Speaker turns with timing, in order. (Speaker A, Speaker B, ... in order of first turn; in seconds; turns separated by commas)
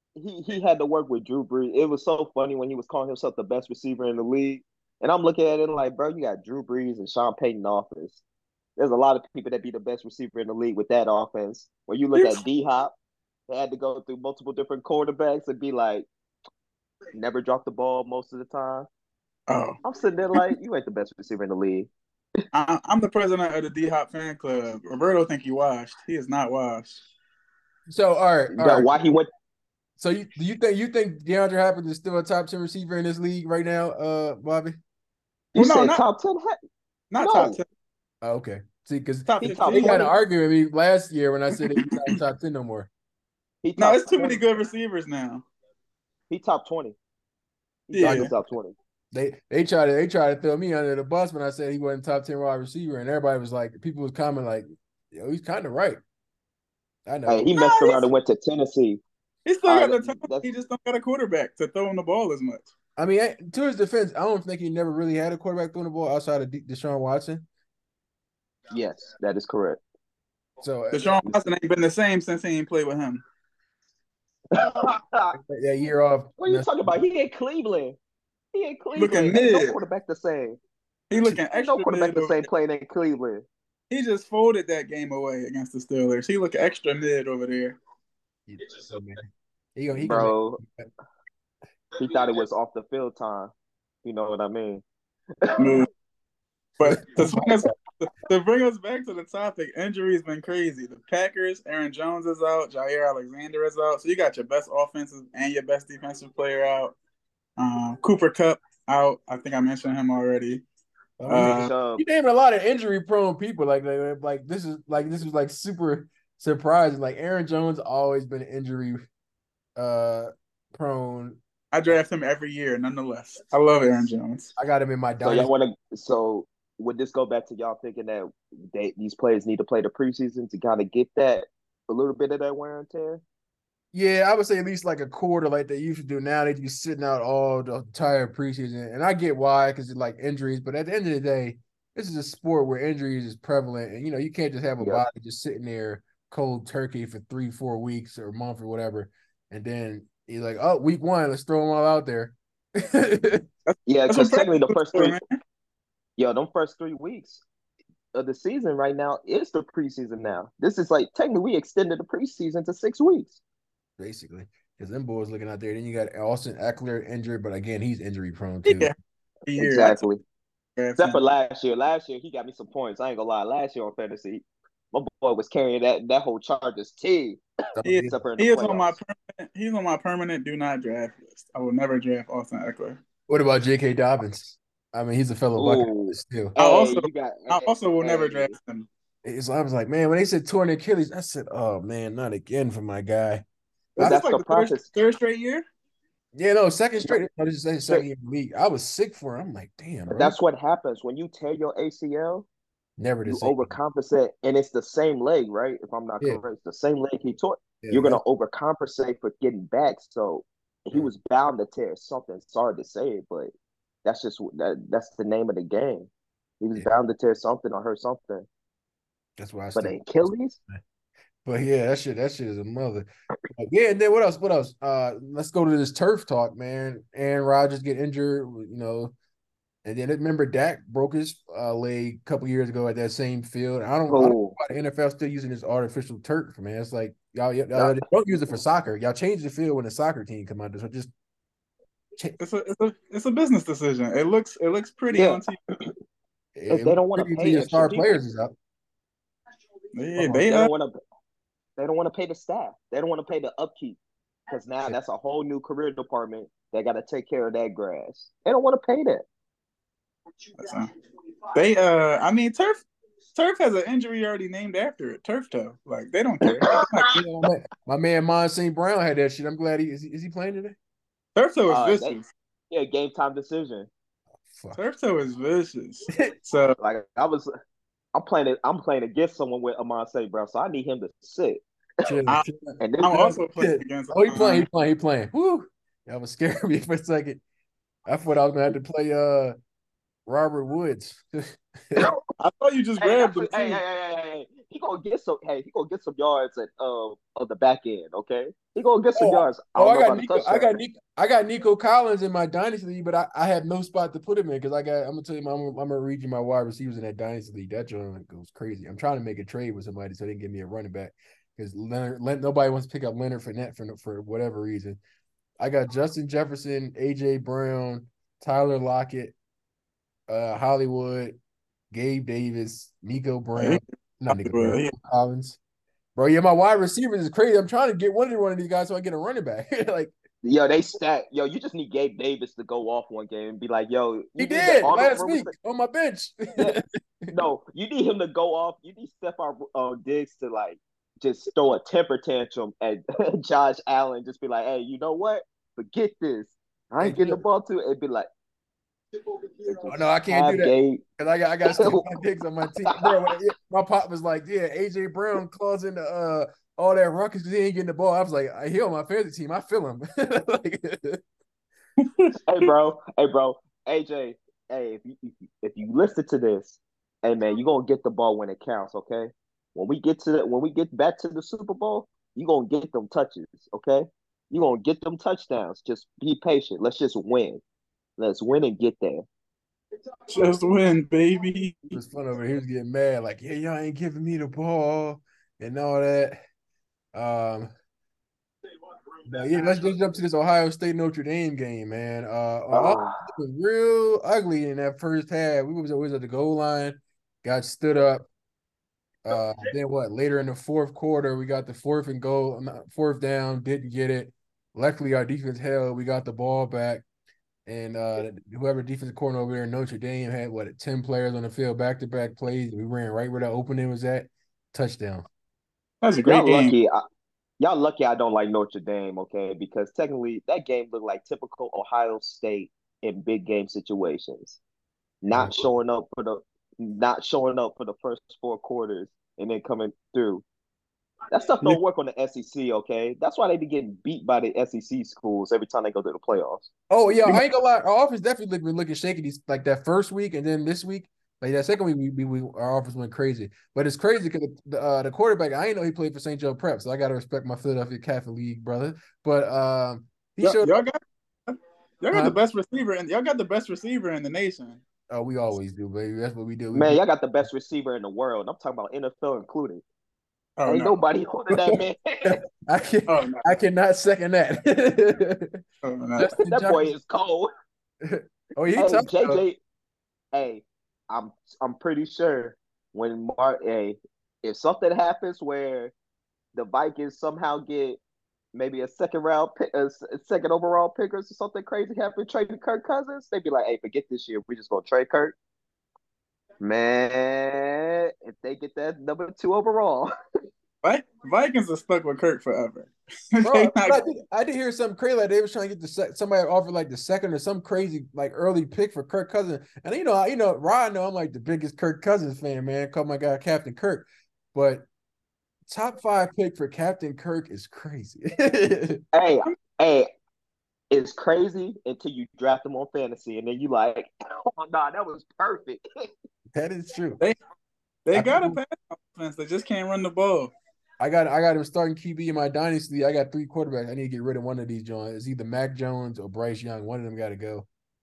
Speaker A: 0.2-8.2, Speaker A: 8.8-12.9, Speaker B: 12.1-12.4, Speaker A: 13.5-16.1, Speaker A: 17.1-18.9, Speaker B: 19.5-19.8, Speaker A: 19.8-21.9, Speaker B: 22.5-27.0, Speaker C: 27.9-28.9, Speaker A: 28.5-29.3, Speaker C: 30.0-34.8, Speaker A: 35.5-36.6, Speaker B: 35.5-36.0, Speaker B: 37.1-37.6, Speaker A: 37.2-37.6, Speaker C: 38.2-42.9, Speaker B: 39.2-40.1, Speaker A: 39.4-40.1, Speaker B: 41.6-42.2, Speaker A: 43.6-44.4, Speaker B: 43.8-45.4, Speaker A: 46.3-47.0, Speaker A: 47.9-48.7, Speaker B: 47.9-48.3, Speaker C: 49.1-56.0, Speaker C: 57.0-57.5, Speaker A: 57.3-59.0, Speaker B: 57.5-58.0, Speaker B: 59.5-62.7, Speaker A: 59.6-60.5, Speaker C: 63.0-67.5, Speaker A: 68.7-69.8, Speaker C: 70.6-71.2, Speaker B: 70.9-73.2, Speaker A: 74.5-75.4, Speaker C: 75.4-77.0, Speaker A: 76.4-78.0, Speaker A: 78.5-80.6, Speaker B: 79.0-79.8, Speaker B: 81.1-82.5, Speaker A: 81.5-83.5, Speaker B: 83.9-87.8, Speaker C: 88.5-90.9, Speaker A: 89.9-90.6, Speaker A: 92.0-93.5, Speaker A: 94.0-94.8, Speaker A: 95.4-95.8, Speaker B: 95.6-95.9, Speaker B: 96.8-107.0, Speaker C: 96.8-97.3, Speaker B: 107.6-110.6, Speaker C: 111.2-119.0, Speaker B: 111.3-111.7, Speaker A: 111.3-112.0, Speaker C: 119.8-121.4, Speaker B: 121.7-124.5, Speaker C: 124.6-125.5, Speaker A: 125.2-133.2, Speaker C: 133.9-153.4, Speaker A: 144.8-145.1, Speaker B: 153.7-155.4, Speaker A: 153.8-155.2, Speaker A: 156.2-157.4, Speaker A: 158.1-163.4, Speaker C: 164.0-168.9, Speaker B: 168.6-168.9, Speaker B: 169.5-170.0, Speaker A: 169.6-170.2, Speaker B: 170.8-171.2, Speaker A: 171.0-177.4, Speaker C: 177.8-178.2, Speaker B: 177.8-183.0, Speaker A: 178.0-178.9, Speaker C: 183.3-186.5, Speaker A: 185.6-188.5, Speaker B: 186.6-188.9, Speaker C: 189.2-193.4, Speaker A: 193.9-194.9, Speaker B: 194.0-195.6, Speaker C: 196.3-200.4, Speaker A: 200.1-202.5, Speaker C: 203.0-203.7, Speaker A: 203.2-213.5, Speaker C: 207.8-208.2, Speaker A: 214.0-218.4, Speaker C: 219.4-220.8, Speaker A: 219.7-220.6, Speaker C: 221.4-229.1, Speaker C: 229.8-241.1, Speaker A: 234.1-234.6, Speaker A: 237.7-238.0, Speaker B: 242.4-245.5, Speaker A: 245.1-245.8, Speaker C: 246.6-248.5, Speaker A: 246.7-248.2, Speaker B: 249.9-250.7, Speaker A: 250.2-250.9, Speaker A: 251.8-254.0, Speaker A: 254.5-259.2, Speaker B: 260.6-260.9, Speaker B: 261.5-267.2, Speaker A: 266.5-267.2, Speaker C: 267.1-270.8, Speaker B: 271.4-272.2, Speaker A: 271.7-272.2, Speaker A: 272.7-273.9, Speaker C: 274.4-274.8, Speaker B: 274.7-276.8, Speaker A: 276.8-277.5, Speaker A: 278.1-281.6, Speaker C: 282.0-282.8, Speaker A: 282.8-283.4, Speaker B: 283.0-284.6, Speaker C: 283.6-287.4, Speaker C: 288.1-289.5, Speaker C: 290.3-292.1, Speaker B: 292.4-293.8, Speaker A: 293.0-300.7, Speaker C: 299.1-315.0, Speaker C: 315.6-319.4, Speaker C: 320.3-321.4, Speaker C: 321.9-325.6, Speaker B: 323.6-324.9, Speaker C: 326.1-330.1, Speaker A: 330.4-335.5, Speaker C: 334.4-337.3, Speaker A: 336.6-348.3, Speaker C: 347.0-347.4, Speaker A: 349.6-351.0, Speaker C: 349.9-361.2, Speaker A: 351.7-352.1, Speaker A: 352.9-353.1, Speaker B: 362.0-362.7, Speaker A: 362.5-377.6, Speaker A: 378.2-379.2, Speaker B: 380.3-381.9, Speaker C: 381.9-386.4, Speaker C: 387.1-387.7, Speaker C: 389.2-398.3, Speaker A: 392.7-393.3, Speaker C: 399.2-407.0, Speaker C: 407.6-415.2, Speaker B: 416.0-416.7, Speaker A: 416.2-417.0, Speaker A: 417.6-424.6, Speaker A: 425.2-430.4, Speaker C: 425.3-425.6, Speaker A: 431.3-436.7, Speaker C: 436.9-450.7, Speaker B: 450.4-454.8, Speaker C: 452.1-452.4, Speaker C: 455.1-457.0, Speaker A: 456.7-459.8, Speaker B: 460.6-461.0, Speaker A: 460.7-462.4, Speaker C: 461.5-465.6, Speaker B: 463.1-463.4, Speaker B: 465.8-466.3, Speaker C: 466.2-466.9, Speaker A: 466.3-467.5, Speaker C: 468.0-469.4, Speaker A: 468.7-469.6, Speaker A: 470.3-475.9, Speaker A: 476.5-478.0, Speaker A: 478.5-485.4, Speaker A: 486.6-490.1, Speaker B: 490.8-494.0, Speaker C: 493.4-504.9, Speaker C: 505.6-509.0, Speaker A: 509.1-510.1, Speaker A: 510.9-515.8, Speaker C: 516.5-517.2, Speaker B: 518.0-520.5, Speaker C: 518.1-518.6, Speaker C: 521.0-527.7